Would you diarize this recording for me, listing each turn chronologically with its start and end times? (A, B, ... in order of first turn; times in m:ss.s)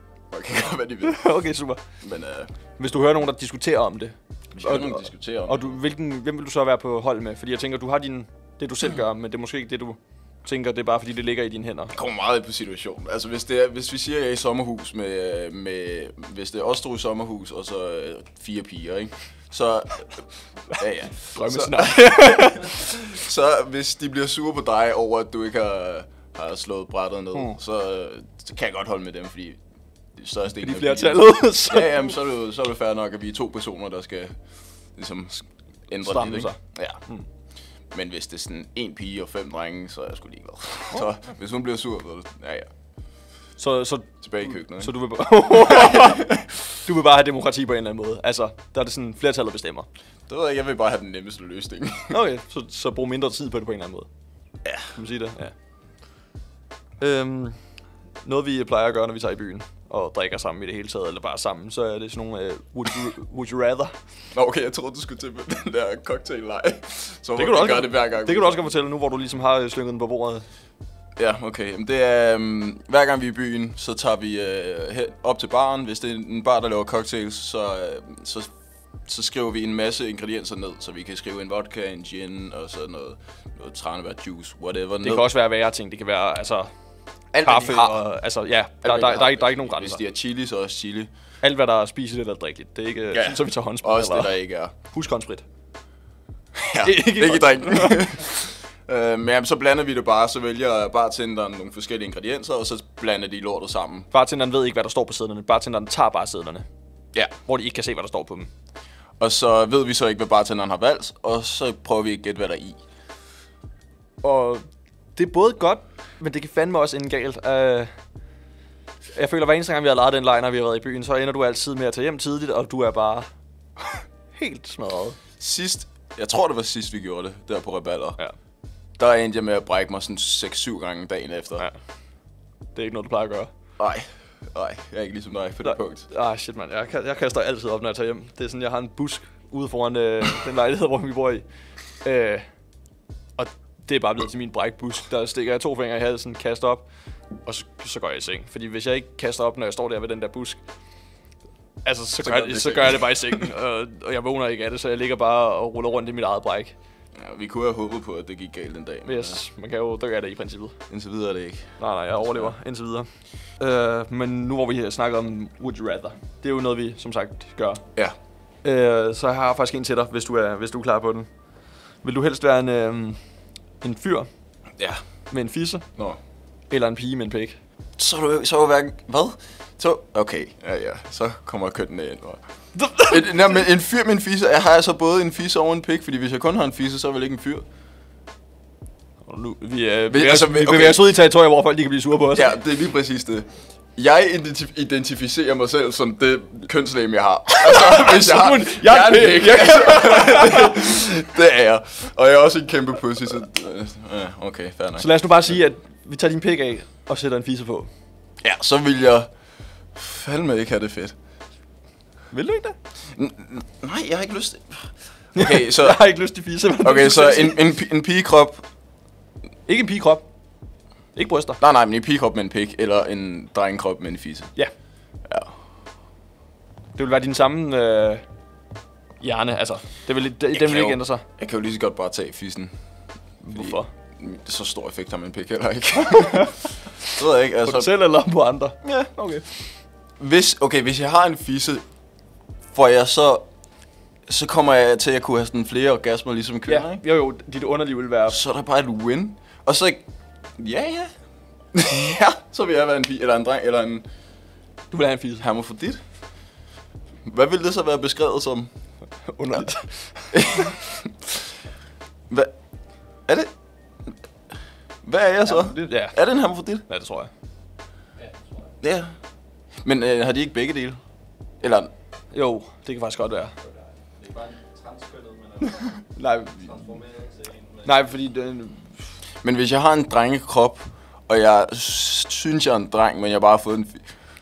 0:00.3-0:01.3 A
0:01.0-0:01.8 B
0:02.0-0:02.5 A
0:02.8-0:11.9 B
0:04.6-0:05.7 A
0:11.9-0:29.6 A
0:21.2-0:22.9 B
0:30.2-0:34.4 A
0:30.6-0:32.1 B
0:35.0-0:37.0 A
0:36.0-0:37.3 B
0:37.9-0:42.7 A
0:43.6-0:49.9 B
0:44.2-0:45.0 A
0:45.7-0:46.3 A
0:50.3-0:52.2 A
0:52.1-0:54.1 B
0:54.6-0:54.9 A
0:55.0-0:55.6 B
0:57.0-0:57.6 B
0:58.2-1:03.9 B
1:04.3-1:08.6 A
1:07.4-1:10.4 B
1:11.2-1:18.5 A
1:19.1-1:25.3 A
1:25.0-1:26.7 B
1:27.3-1:28.0 A
1:27.4-1:30.0 B
1:28.8-1:31.1 A
1:31.4-1:35.4 B
1:33.1-1:34.8 A
1:36.6-1:44.1 A
1:36.8-1:38.3 B
1:44.1-1:46.7 B
1:47.5-1:48.5 B
1:49.2-1:52.8 A
1:54.2-1:57.9 B
1:59.1-2:03.3 B
2:04.3-2:05.2 B
2:05.4-2:08.2 A
2:09.0-2:11.7 A
2:12.8-2:13.5 B
2:13.8-2:16.1 A
2:15.6-2:21.4 B
2:22.0-2:22.5 B
2:23.4-2:26.9 B
2:27.4-2:30.6 B
2:31.8-2:36.8 B
2:32.2-2:33.4 A
2:37.2-2:39.4 A
2:39.0-2:40.8 B
2:40.9-2:42.5 A
2:41.8-2:43.1 B
2:43.6-2:47.8 B
2:48.6-2:51.3 B
2:52.0-2:53.2 B
2:53.8-2:54.3 B
2:55.3-2:55.9 B
2:56.7-2:57.6 B
2:58.0-3:02.4 A
3:02.8-3:03.6 B
3:03.0-3:07.6 A
3:09.3-3:12.6 B
3:10.1-3:11.1 A
3:12.3-3:25.2 A
3:17.6-3:20.9 B
3:25.0-3:27.9 B
3:28.4-3:29.3 A
3:30.0-3:31.2 A
3:32.3-3:32.8 B
3:33.2-3:36.1 A
3:35.4-3:37.6 B
3:36.8-3:38.6 A
3:39.7-3:40.2 B
3:41.2-3:41.6 B
3:41.6-3:44.5 A
3:45.3-3:45.5 A
3:47.0-3:48.2 B
3:49.2-3:51.2 B
3:50.5-3:52.7 A
3:53.4-3:53.9 B
3:53.5-3:57.9 A
3:56.1-3:56.5 B
3:57.6-3:59.5 B
4:00.2-4:01.8 A
4:02.7-4:03.5 A
4:04.3-4:07.0 A
4:06.7-4:08.4 B
4:08.3-4:10.0 A
4:10.6-4:11.1 A
4:11.7-4:14.0 A
4:14.9-4:15.4 B
4:15.4-4:16.0 A
4:17.2-4:18.7 A
4:19.2-4:20.8 B
4:20.3-4:20.8 A
4:22.3-4:22.6 A
4:25.0-4:26.8 A
4:25.4-4:26.2 B
4:26.9-4:27.3 B
4:28.2-4:28.7 C
4:28.8-4:29.1 A
4:29.8-4:31.0 A
4:31.6-4:31.9 A
4:32.3-4:33.5 B
4:34.2-4:35.9 C
4:36.0-4:36.9 B
4:36.6-4:37.9 C
4:37.8-4:38.9 B
4:39.4-4:44.0 A